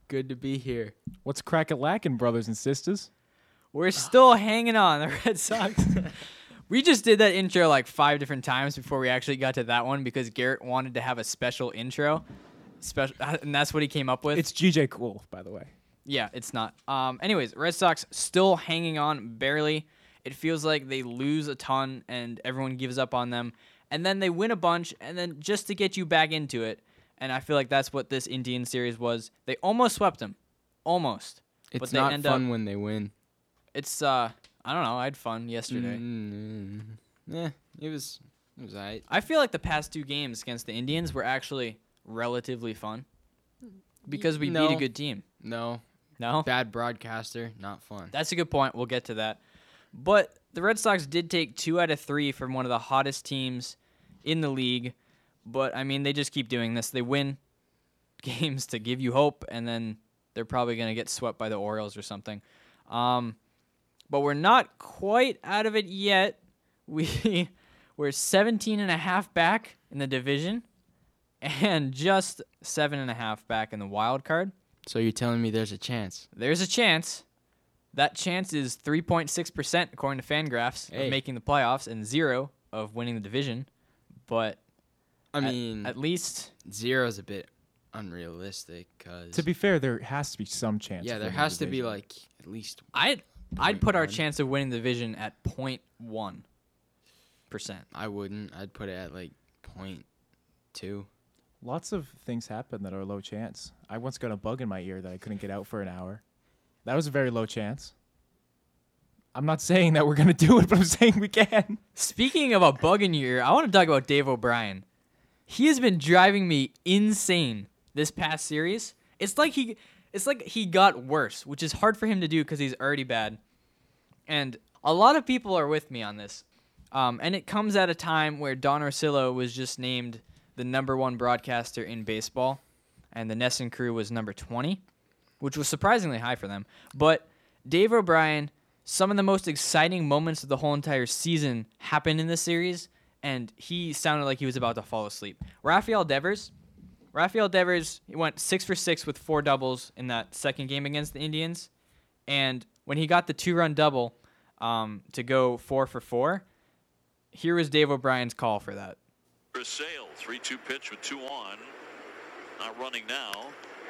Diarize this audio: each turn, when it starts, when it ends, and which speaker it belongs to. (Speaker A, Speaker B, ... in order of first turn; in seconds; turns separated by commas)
Speaker A: 0.1-0.9, Speaker B: 1.2-3.1, Speaker C: 3.7-6.1, Speaker C: 6.7-12.2, Speaker C: 12.8-14.5, Speaker B: 14.3-15.7, Speaker C: 16.1-32.5, Speaker A: 31.7-33.1, Speaker C: 33.7-36.0, Speaker A: 35.7-39.1, Speaker C: 39.1-43.1, Speaker C: 44.1-45.2, Speaker A: 44.1-44.9, Speaker A: 45.4-45.8, Speaker C: 46.2-46.5, Speaker A: 46.4-48.1, Speaker C: 48.1-49.4, Speaker C: 49.9-54.9, Speaker C: 55.5-57.4, Speaker C: 58.2-63.4, Speaker C: 64.1-70.7, Speaker C: 71.4-74.5, Speaker A: 74.9-76.3, Speaker C: 76.3-77.2, Speaker C: 77.9-83.7, Speaker A: 80.9-81.2, Speaker C: 84.3-84.6, Speaker A: 85.3-86.0, Speaker C: 85.4-86.5, Speaker A: 86.7-89.5, Speaker B: 89.3-91.9, Speaker A: 91.0-92.9, Speaker C: 92.9-96.4, Speaker A: 93.6-94.2, Speaker C: 97.5-97.9, Speaker A: 97.9-100.0, Speaker A: 100.7-101.1, Speaker B: 101.6-106.2, Speaker B: 106.8-107.9, Speaker B: 109.3-111.8, Speaker C: 112.0-114.8, Speaker C: 115.5-123.4, Speaker C: 124.3-132.6, Speaker C: 133.1-134.8, Speaker C: 135.4-146.5, Speaker C: 147.1-151.7, Speaker C: 152.3-156.4, Speaker C: 157.3-159.0, Speaker D: 159.5-161.7, Speaker D: 162.6-163.6